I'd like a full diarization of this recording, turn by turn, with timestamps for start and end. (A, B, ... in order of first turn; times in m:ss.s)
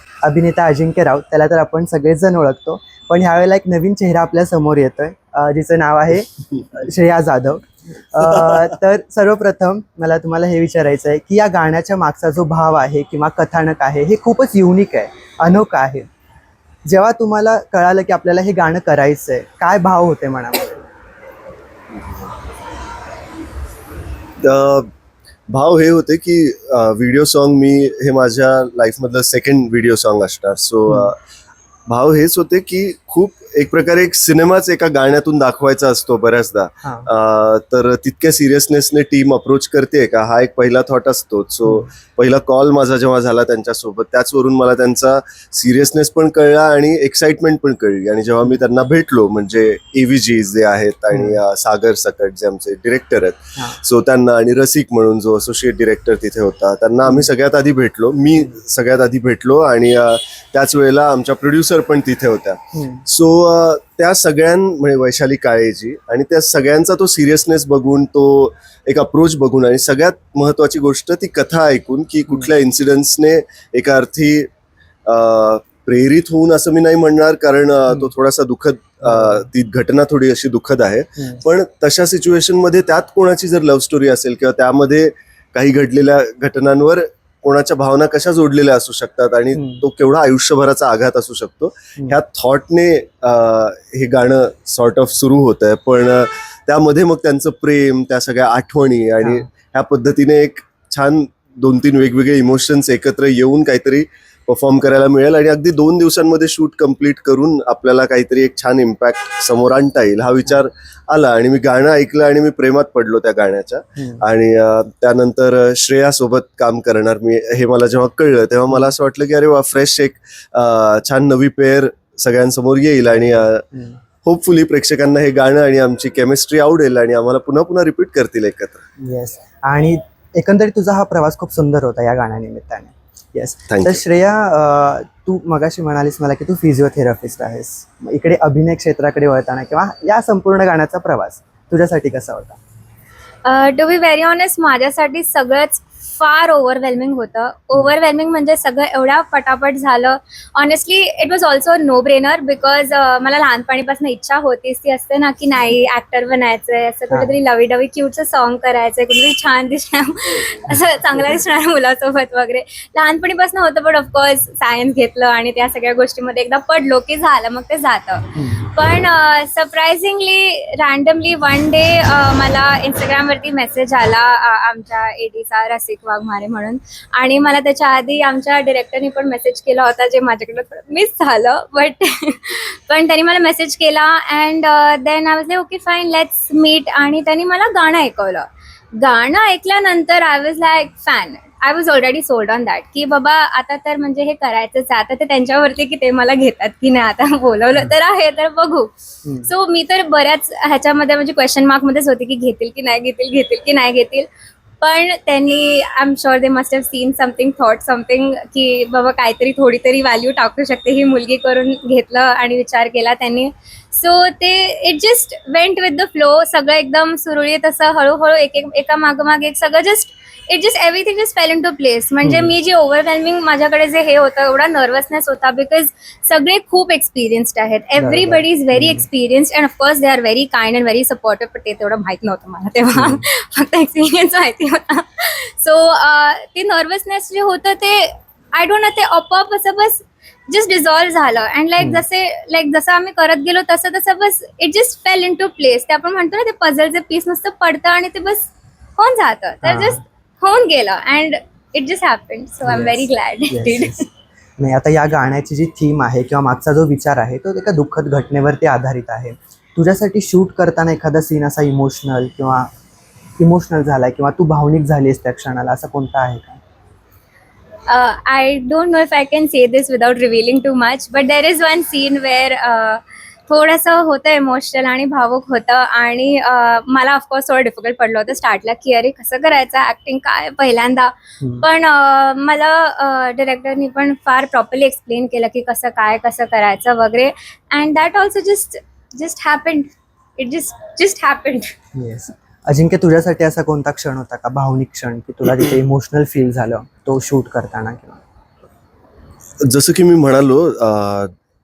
0:00.2-0:16.1 A
0:16.9-0:20.8 A
0:24.4-0:24.9 B
0:25.5-0:31.2 B
0:31.9-1:14.5 B
0:36.8-0:37.1 A
0:51.1-0:51.4 A
1:02.7-1:03.0 A
1:15.1-2:03.7 B
1:19.0-1:19.5 A
1:29.6-1:29.8 A
1:39.2-1:39.5 A
1:54.0-1:54.2 A
2:03.1-2:04.0 A
2:04.2-2:08.8 B
2:09.0-2:22.6 A
2:13.7-2:14.0 B
2:23.4-3:08.5 C
2:48.4-2:48.7 A
3:09.0-3:24.3 C
3:19.2-3:19.5 A
3:24.8-4:14.0 C
3:42.2-3:42.5 A
3:48.0-3:49.1 A
3:52.9-3:53.2 A
4:01.8-4:02.0 A
4:09.6-4:10.0 A
4:12.6-4:14.1 A
4:14.6-4:22.7 A
4:23.4-4:26.6 A
4:27.9-4:51.7 C
4:41.4-4:41.7 A
4:52.0-4:58.2 A
4:59.6-5:01.3 B